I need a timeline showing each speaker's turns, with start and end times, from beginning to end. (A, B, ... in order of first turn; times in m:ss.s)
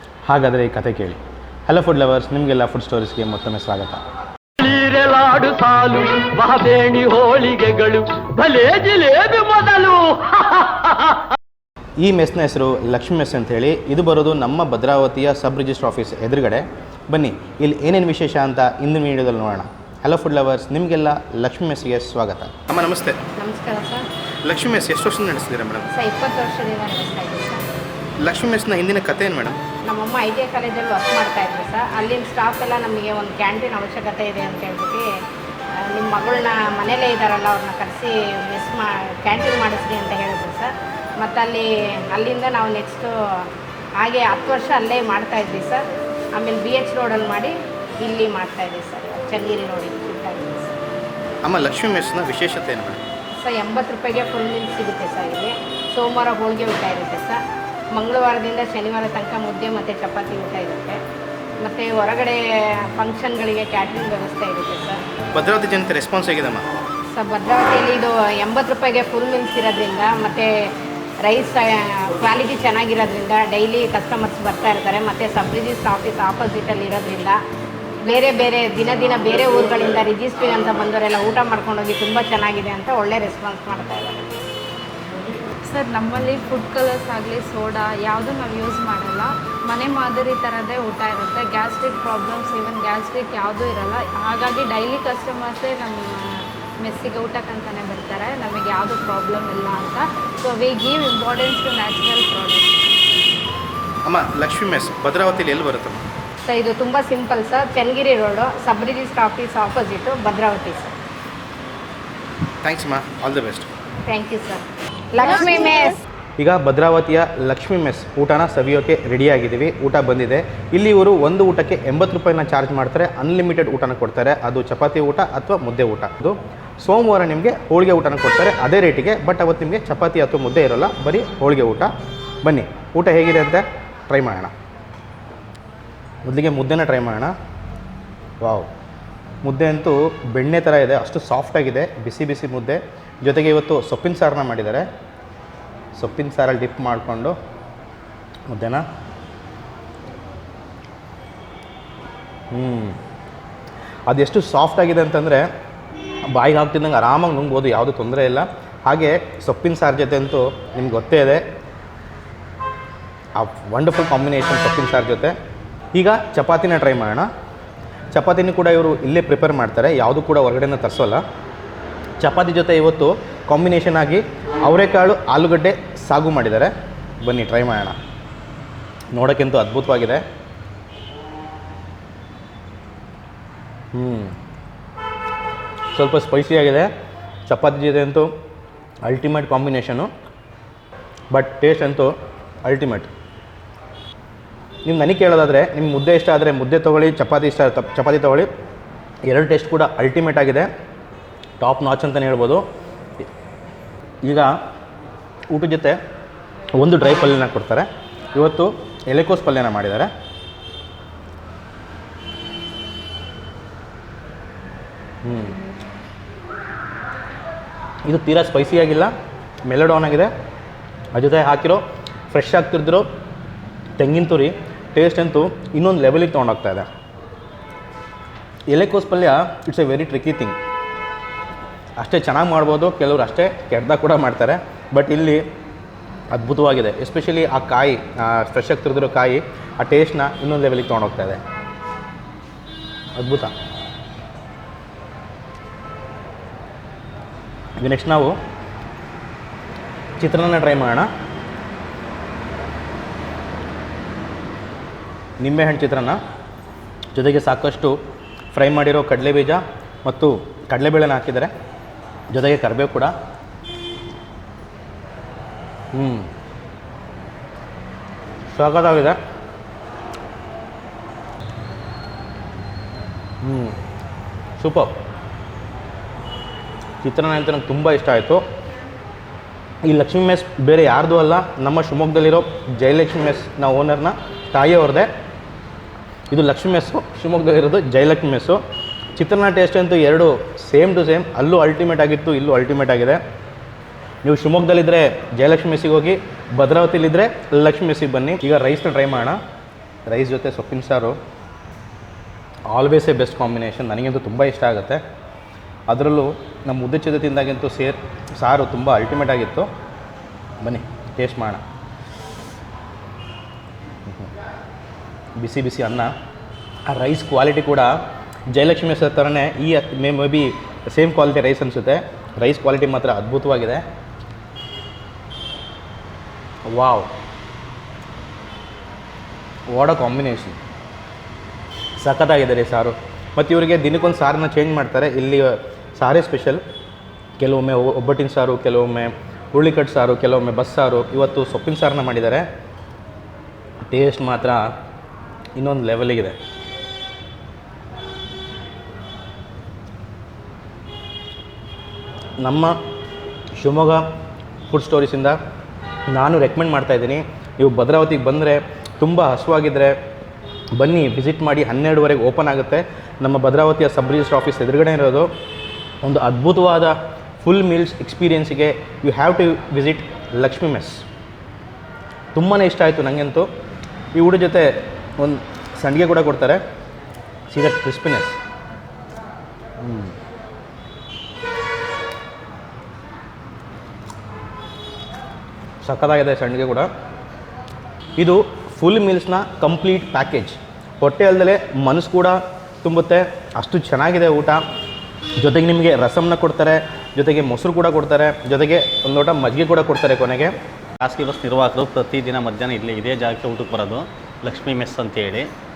0:00.3-0:04.0 A
0:04.6-0:11.2 B
0:12.0-0:23.2 A
0:23.4-0:24.1 C
0:24.4-0:25.9 A
0:25.9-0:27.7 C
0:28.2-0:29.6 A
0:29.9-0:35.0 C
0:35.9-0:43.5 C
0:44.0-0:45.8 C
0:46.3-0:50.7 C
0:51.4-0:53.0 A
0:53.4-0:57.4 C
0:57.9-1:01.0 C
1:01.6-1:05.0 C
1:05.3-1:06.6 A
1:07.1-1:10.7 C
1:11.2-1:17.4 C
1:18.0-1:24.3 C
1:25.7-1:42.7 D
1:44.0-1:46.0 A
1:46.4-1:50.9 C
1:52.6-1:53.7 A
1:54.1-1:56.0 C
1:56.4-2:11.9 A
2:12.4-2:14.5 A
2:16.2-2:17.3 A
2:18.4-2:18.7 A
2:19.4-2:24.9 A
2:26.0-2:27.4 A
2:28.5-2:28.8 A
2:32.5-2:33.0 A
2:34.1-2:35.5 A
2:36.3-2:41.4 A
2:43.4-2:45.3 A
2:45.9-2:47.3 A
2:48.1-2:51.2 A
2:52.2-2:56.7 A
2:57.2-2:58.0 A
2:59.1-3:00.2 A
3:03.9-3:04.4 A
3:05.9-3:06.9 A
3:07.5-3:08.3 A
3:09.0-3:10.1 A
3:11.3-3:12.1 A
3:12.6-3:13.1 A
3:14.8-3:18.5 A
3:19.3-3:20.7 A
3:21.6-3:22.6 A
3:24.2-3:24.5 A
3:25.5-3:26.0 A
3:26.8-3:30.1 A
3:35.2-3:35.6 A
3:38.1-3:39.1 A
3:39.7-3:40.3 A
3:41.1-3:43.0 A
3:44.0-3:46.9 A
3:48.7-3:50.6 A
3:52.0-3:55.4 A
3:56.3-4:01.4 A
4:03.2-4:03.5 A
4:07.8-4:08.4 A
4:10.2-4:11.1 A
4:15.4-4:16.2 A
4:17.1-4:18.0 A
4:18.5-4:21.5 A
4:22.3-4:23.1 A
4:25.9-4:26.3 A
4:28.5-4:29.2 A
4:33.4-4:33.8 A
4:34.6-4:34.9 A
4:37.0-4:38.4 A
4:39.8-4:45.1 A
4:46.3-4:48.6 A
4:49.2-4:53.2 A
4:54.2-4:59.4 A
5:00.1-5:01.2 A
5:02.7-5:05.0 A
5:05.9-5:09.7 A
5:10.6-5:11.6 A
5:15.4-5:16.1 A
5:16.9-5:17.9 A
5:18.5-5:23.8 A
5:26.7-5:27.1 A
5:29.7-5:30.6 A
5:32.0-5:36.6 A
5:37.4-5:42.4 A
5:43.8-5:44.7 A
5:45.6-5:46.4 A
5:52.4-5:52.7 A
5:53.6-5:54.0 A
5:54.7-5:55.4 A
5:56.1-6:00.0 A
6:00.8-6:05.3 A
6:06.0-6:11.0 A
6:12.3-6:13.5 A
6:14.2-6:16.6 A
6:17.5-6:18.4 A
6:19.8-6:20.1 A
6:25.8-6:26.9 A
6:28.2-6:34.6 A
6:35.4-6:40.5 A
6:41.0-6:45.5 E